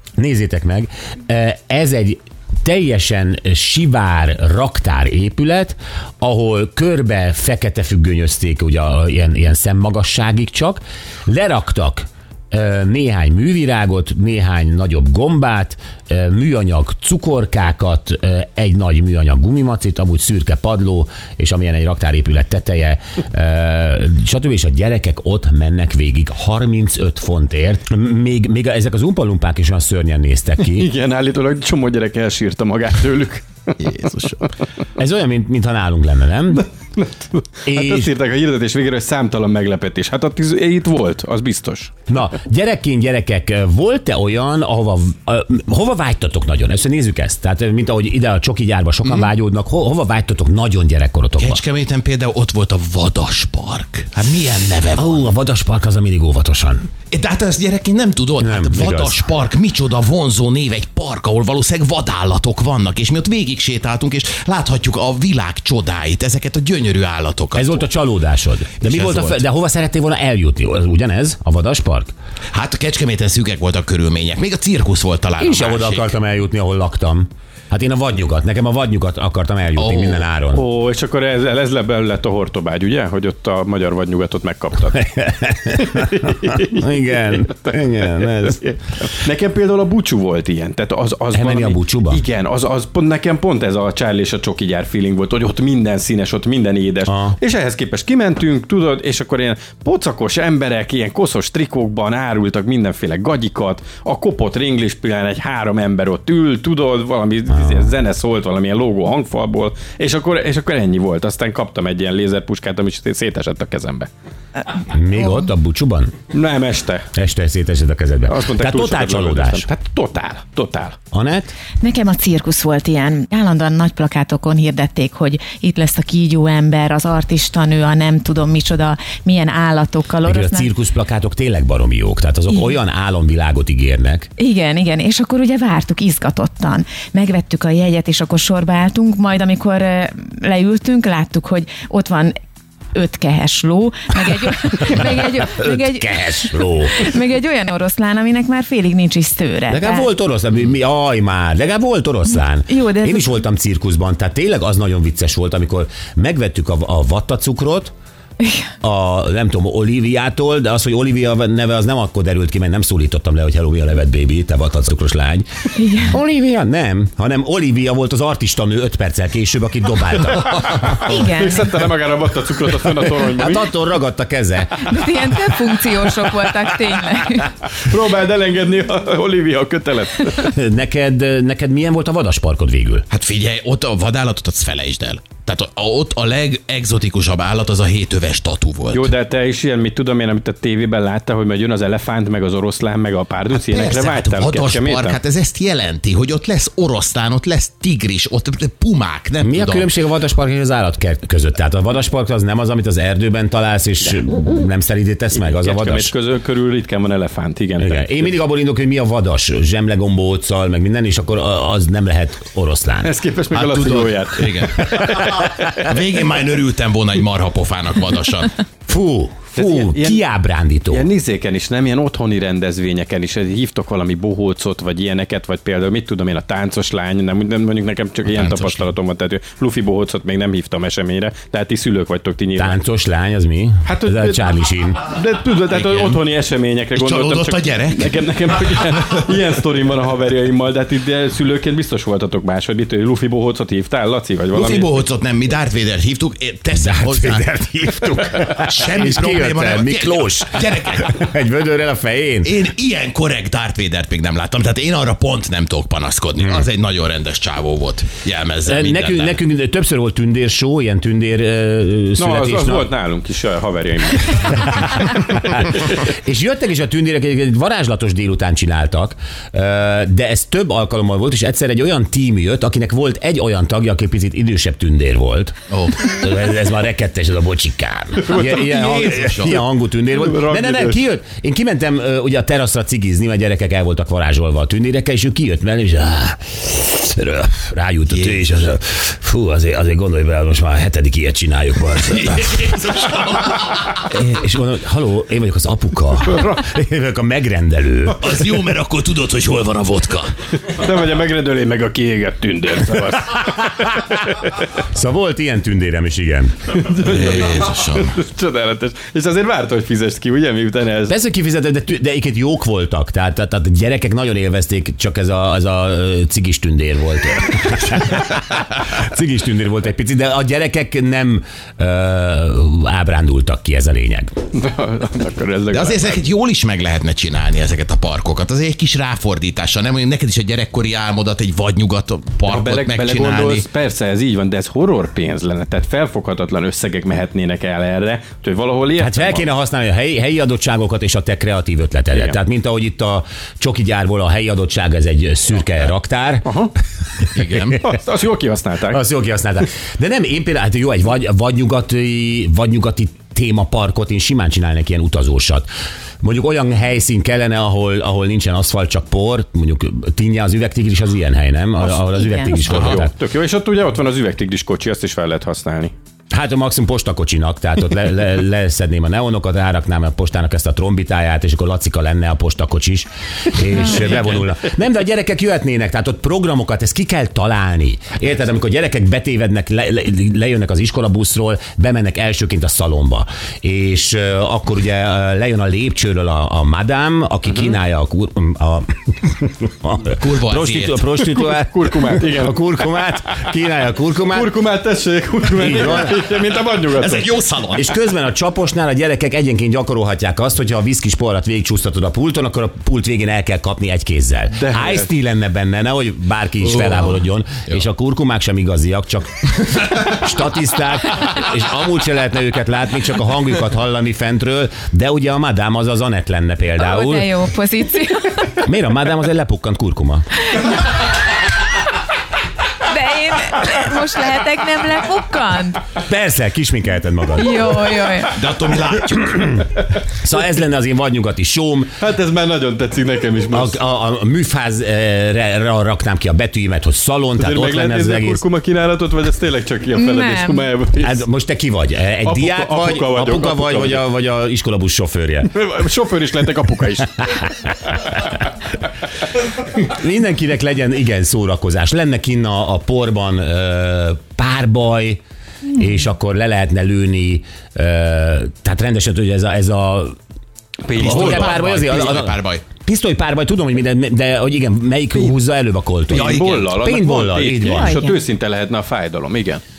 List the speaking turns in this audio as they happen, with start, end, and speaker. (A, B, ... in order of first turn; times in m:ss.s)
0:00.2-0:30.9 A
0:30.6-0:33.8 B
0:33.8-0:34.5 C
0:35.0-0:36.6 A
0:36.6-0:41.9 B
0:37.6-0:38.1 A
0:42.1-0:51.6 A
0:49.0-0:49.3 C
0:51.4-0:55.2 C
0:55.0-0:56.9 A
0:57.1-1:07.9 C
0:58.4-0:59.2 A
1:07.5-1:12.1 A
1:08.8-1:09.4 C
1:12.5-1:16.1 C
1:15.4-1:20.6 A
1:19.8-1:20.2 C
1:20.5-1:25.1 B
1:25.0-1:28.6 A
1:25.7-1:27.4 B
1:28.0-1:54.1 B
1:31.3-1:32.2 A
1:37.1-1:37.4 A
1:47.5-1:47.9 A
1:54.9-1:56.1 A
1:56.3-1:57.0 B
1:57.1-1:59.7 A
1:58.3-2:01.0 B
2:01.1-2:01.5 A
2:01.8-2:10.7 D
2:10.2-2:14.3 A
2:14.4-2:22.4 D
2:22.9-2:30.1 D
2:24.8-2:27.1 A
2:29.7-2:37.9 A
2:32.3-2:33.4 D
2:38.4-2:38.7 D
2:38.8-2:51.1 A
2:45.7-2:46.2 D
2:50.8-2:53.7 B
2:51.0-2:51.7 D
2:53.2-2:55.1 A
2:54.8-2:57.5 D
2:57.8-3:00.4 B
3:00.4-3:03.0 A
3:03.1-3:09.1 C
3:08.9-3:15.2 B
3:13.5-3:19.9 C
3:19.4-3:26.1 A
3:25.3-3:28.3 B
3:27.8-3:33.1 A
3:33.0-3:35.8 B
3:33.5-3:38.5 C
3:38.9-3:41.1 A
3:39.5-3:40.2 B
3:40.9-3:52.8 B
3:48.3-3:48.9 C
3:52.5-3:55.0 A
3:53.8-4:05.1 B
3:55.7-3:56.2 C
3:56.9-3:58.1 C
4:04.5-4:07.4 C
4:06.7-4:12.5 A
4:08.7-4:11.1 C
4:12.4-4:19.4 C
4:16.4-4:16.6 A
4:18.6-4:22.9 A
4:22.2-4:25.0 B
4:25.1-4:52.6 A
4:35.7-4:36.2 C
4:38.2-4:38.7 B
4:38.5-4:39.6 C
4:40.1-4:41.0 B
4:48.1-4:48.7 C
4:52.1-4:53.8 C
4:54.1-4:58.4 A
4:58.2-5:00.3 C
5:00.6-5:04.6 B
5:04.8-5:06.5 A
5:06.7-5:11.2 B
5:07.0-5:08.1 C
5:11.1-5:24.3 A
5:24.5-5:26.2 B
5:25.7-5:33.6 C
5:32.4-5:39.5 B
5:39.0-5:46.6 A
5:42.1-5:42.4 B
5:46.4-5:46.7 B
5:47.3-5:47.8 C
5:47.7-5:49.0 B
5:48.9-5:55.7 A
5:56.2-6:03.1 A
6:02.2-6:02.6 D
6:02.6-6:05.9 B
6:02.7-6:03.0 C
6:06.3-6:34.5 A
6:13.8-6:14.4 B
6:30.1-6:31.0 C
6:31.3-6:32.9 B
6:34.3-6:37.4 B
6:35.5-6:36.2 A
6:36.7-6:37.9 C
6:37.7-6:57.3 A
6:44.5-6:45.1 B
6:46.8-6:47.1 C
6:56.8-6:58.6 D
6:58.6-7:00.2 A
7:02.8-7:05.8 D
7:06.0-7:07.7 A
7:07.4-7:08.4 D
7:08.3-7:09.5 C
7:09.2-7:11.9 A
7:12.0-7:13.8 B
7:13.5-7:18.4 A
7:17.4-7:21.2 B
7:19.9-7:20.7 D
7:21.0-7:25.6 A
7:22.2-7:24.0 B
7:25.5-7:27.5 B
7:29.8-7:40.1 A
7:40.8-7:41.7 B
7:41.0-7:42.6 C
7:41.0-7:48.0 A
7:46.1-7:49.6 B
7:46.1-7:46.7 C
7:47.5-7:48.2 D